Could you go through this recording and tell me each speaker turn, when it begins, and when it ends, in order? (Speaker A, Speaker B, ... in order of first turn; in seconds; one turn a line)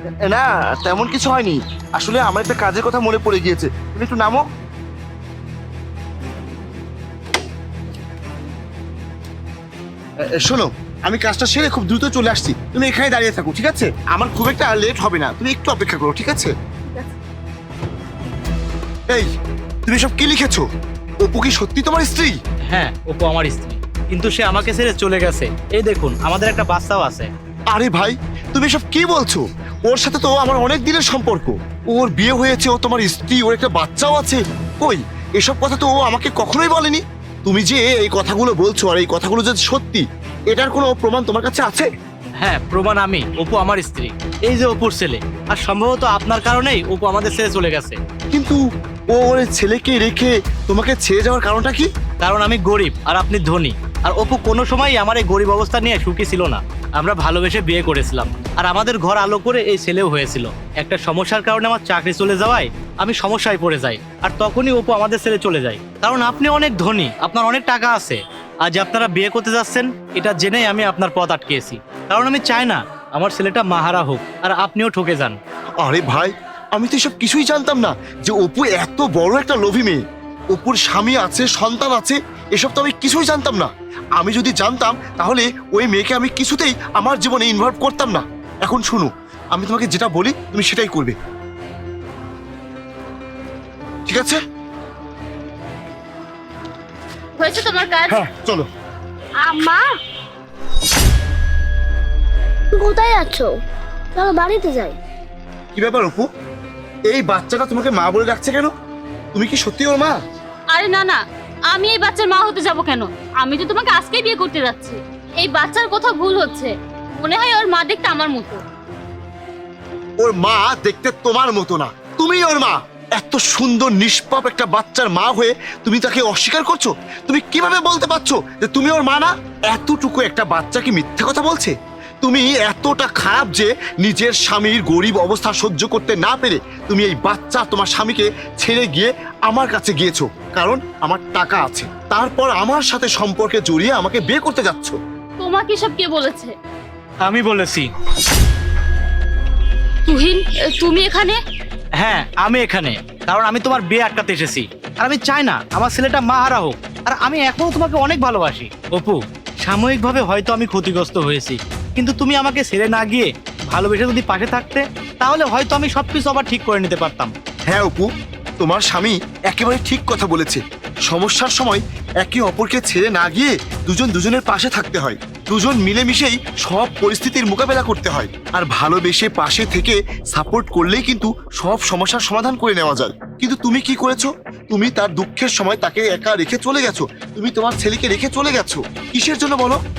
Speaker A: 0.2-4.4
Speaker A: 10.2-16.5
Speaker A: 19.8-20.6
Speaker A: 21.2-22.4
Speaker B: 22.7-27.3
Speaker A: 27.7-41.9
Speaker B: 42.4-48.0
Speaker A: 48.3-48.6
Speaker A: 49.1-51.9
Speaker B: 52.2-75.4
Speaker A: 75.8-80.0
Speaker A: 80.5-91.2
Speaker A: 94.1-94.4
Speaker C: 97.4-98.2
Speaker A: 98.1-98.7
Speaker D: 99.4-99.8
Speaker D: 102.7-103.6
Speaker D: 104.1-105.0
Speaker A: 105.7-106.3
Speaker A: 107.1-108.7
Speaker A: 109.3-110.2
Speaker C: 110.7-111.2
Speaker C: 111.7-118.6
Speaker A: 120.2-145.0
Speaker C: 145.4-146.5
Speaker B: 147.2-147.9
Speaker C: 150.1-151.4
Speaker B: 152.0-167.3
Speaker A: 167.7-168.1
Speaker A: 168.6-189.8